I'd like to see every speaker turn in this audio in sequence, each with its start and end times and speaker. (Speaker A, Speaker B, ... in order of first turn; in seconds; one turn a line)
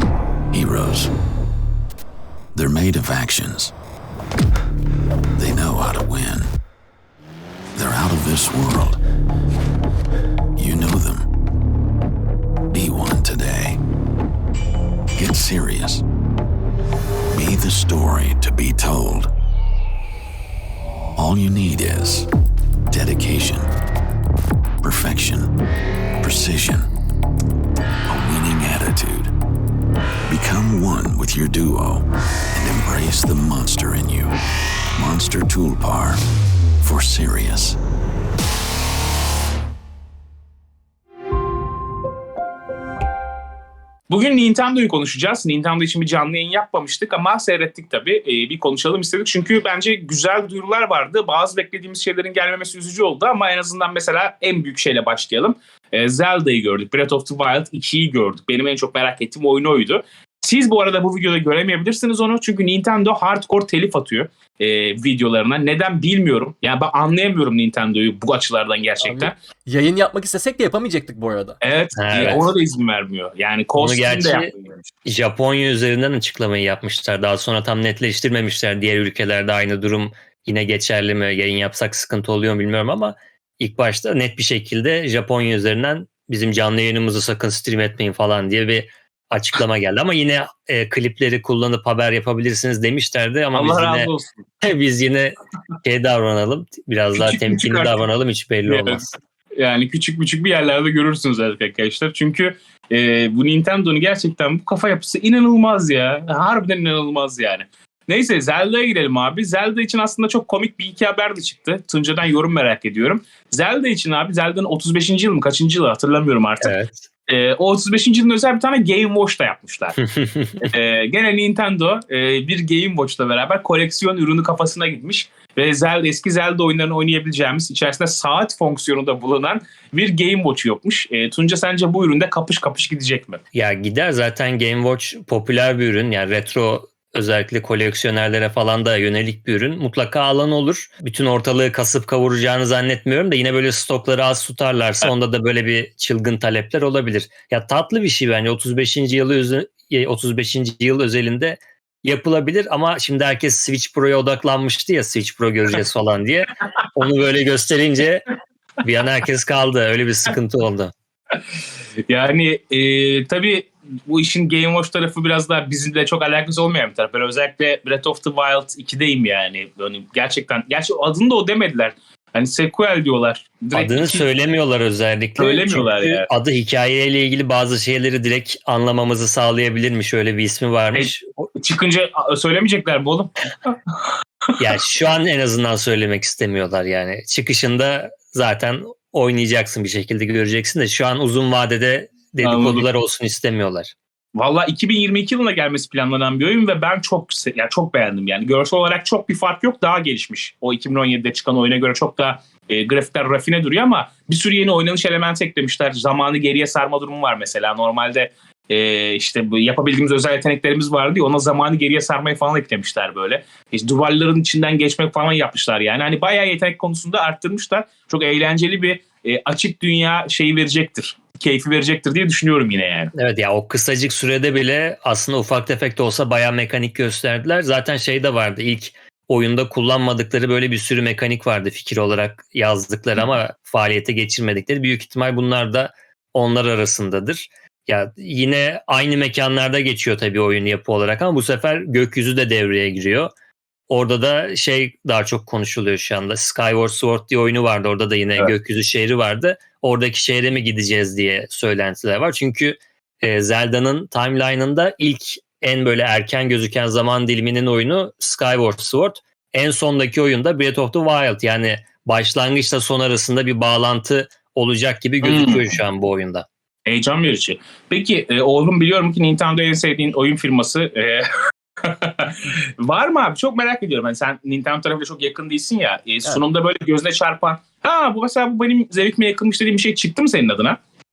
Speaker A: 0.5-1.1
Speaker A: 2.5-3.7
Speaker A: 5.4-6.5
Speaker A: 7.7-9.0
Speaker A: 10.6-11.3
Speaker A: 12.7-13.8
Speaker A: 15.2-16.0
Speaker A: 17.3-19.3
Speaker A: 21.2-22.3
Speaker A: 22.9-23.7
Speaker A: 24.8-25.5
Speaker A: 26.2-26.9
Speaker A: 28.1-29.3
Speaker A: 30.3-34.3
Speaker A: 35.0-36.2
Speaker A: 36.8-37.8
Speaker B: 44.1-69.3
Speaker C: 69.0-71.6
Speaker B: 71.6-74.8
Speaker D: 72.0-72.5
Speaker D: 73.8-74.5
Speaker D: 75.0-99.1
Speaker B: 93.5-94.4
Speaker B: 97.1-98.0
Speaker B: 98.7-99.0
Speaker B: 99.6-116.7
Speaker D: 116.6-117.1
Speaker B: 117.3-120.0
Speaker D: 120.1-120.7
Speaker B: 120.6-133.4
Speaker D: 133.5-158.2
Speaker D: 158.8-160.9
Speaker B: 162.1-174.2
Speaker D: 173.7-181.4
Speaker B: 175.4-176.3
Speaker B: 180.9-184.0
Speaker D: 184.6-193.9
Speaker B: 192.4-192.9
Speaker B: 194.3-223.1
Speaker D: 223.1-243.3
Speaker D: 243.9-266.4
Speaker B: 265.2-265.7
Speaker B: 266.9-271.2
Speaker B: 271.8-280.8